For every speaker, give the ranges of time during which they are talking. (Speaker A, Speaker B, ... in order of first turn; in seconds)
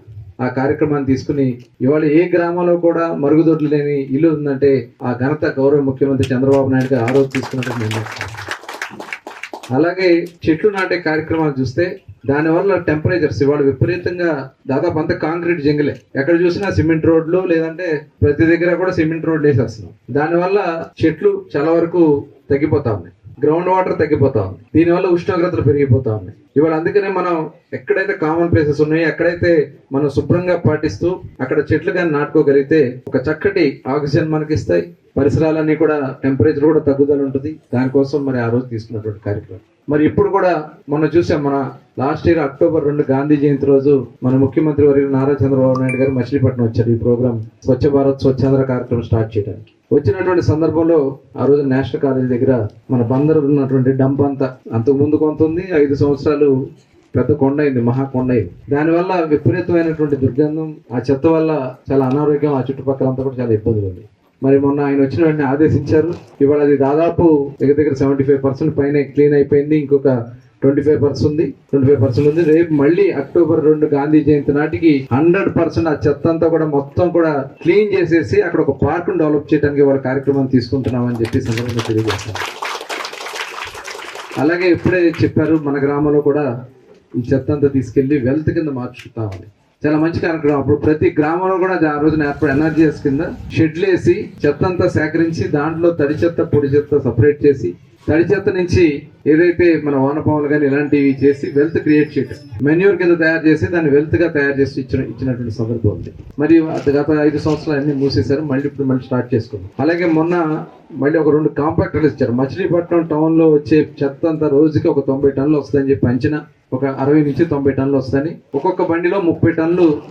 Speaker A: 0.4-8.1, 9.7-56.5, 57.1-82.4, 84.4-86.5, 87.2-110.4, 111.0-119.9